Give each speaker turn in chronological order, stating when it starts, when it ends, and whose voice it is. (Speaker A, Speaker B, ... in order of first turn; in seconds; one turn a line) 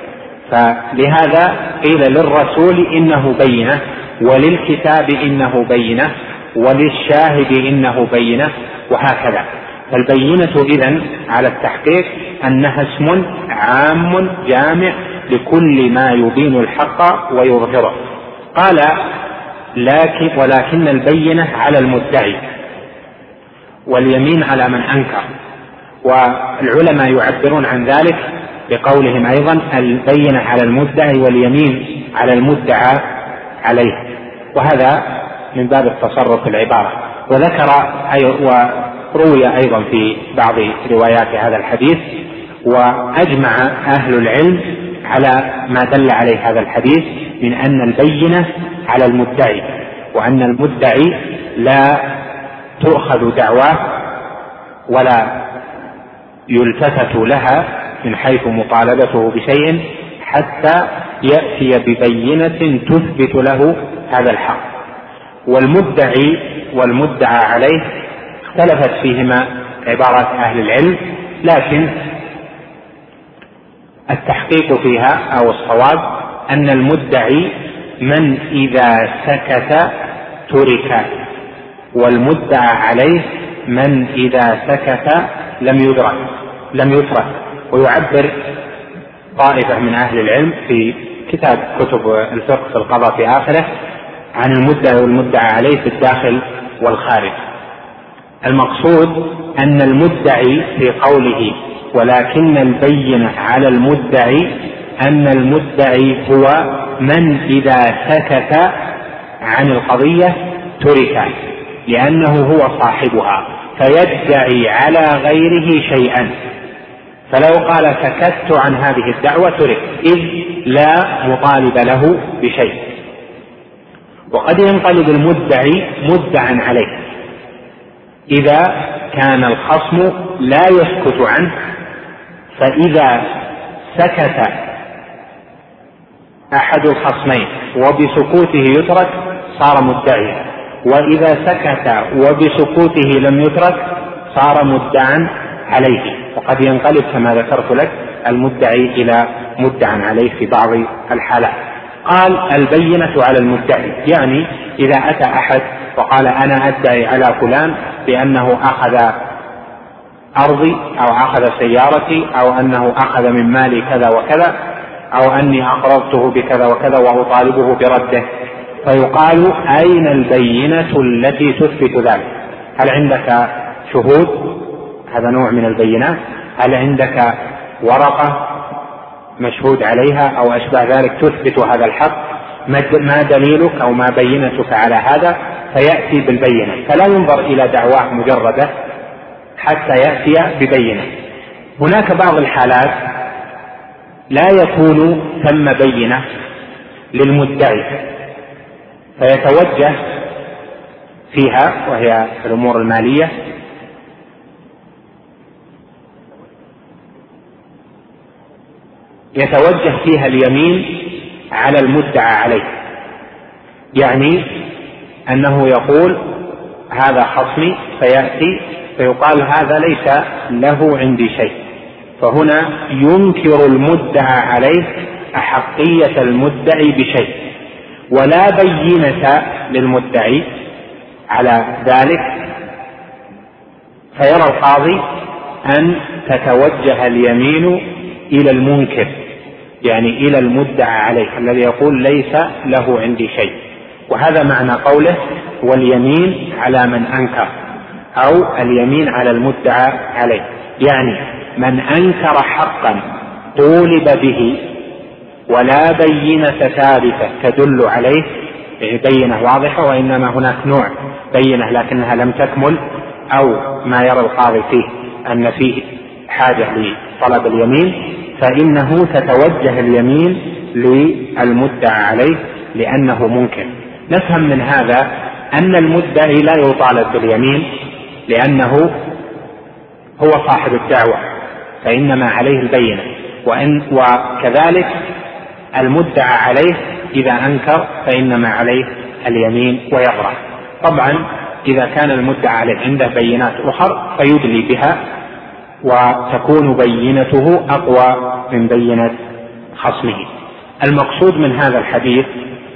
Speaker A: 0.5-18.0
Speaker A: 18.5-19.1
Speaker A: 19.8-22.4
Speaker A: 23.9-25.2
Speaker A: 26.0-33.1
Speaker A: 33.6-52.2
Speaker A: 52.8-54.0
Speaker A: 54.9-55.5
Speaker A: 56.5-64.7
Speaker A: 65.5-67.8
Speaker A: 68.5-72.1
Speaker A: 74.1-79.9
Speaker A: 80.5-81.2
Speaker A: 81.9-88.6
Speaker A: 89.3-93.7
Speaker A: 94.3-97.4
Speaker A: 98.4-116.3
Speaker A: 117.3-122.9
Speaker A: 124.3-127.0
Speaker A: 128.3-131.5
Speaker A: 132.6-133.4
Speaker A: 133.9-134.7
Speaker A: 136.5-159.1
Speaker A: 160.4-164.5
Speaker A: 165.1-168.2
Speaker A: 168.8-178.6
Speaker A: 179.4-188.7
Speaker A: 189.6-191.1
Speaker A: 191.8-193.2
Speaker A: 194.3-196.2
Speaker A: 197.1-198.1
Speaker A: 199.2-200.0
Speaker A: 201.3-203.3
Speaker A: 209.3-212.7
Speaker A: 213.9-214.6
Speaker A: 215.3-216.3
Speaker A: 216.9-221.6
Speaker A: 222.2-227.5
Speaker A: 228.1-230.5
Speaker A: 231.3-232.5
Speaker A: 234.2-235.1
Speaker A: 235.7-239.2
Speaker A: 239.8-243.6
Speaker A: 244.1-247.5
Speaker A: 248.2-253.0
Speaker A: 253.5-254.7
Speaker A: 255.5-258.2
Speaker A: 258.8-279.0
Speaker A: 280.2-281.2
Speaker A: 281.8-285.0
Speaker A: 285.7-295.0
Speaker A: 295.8-299.2
Speaker A: 299.7-300.3
Speaker A: 300.8-302.3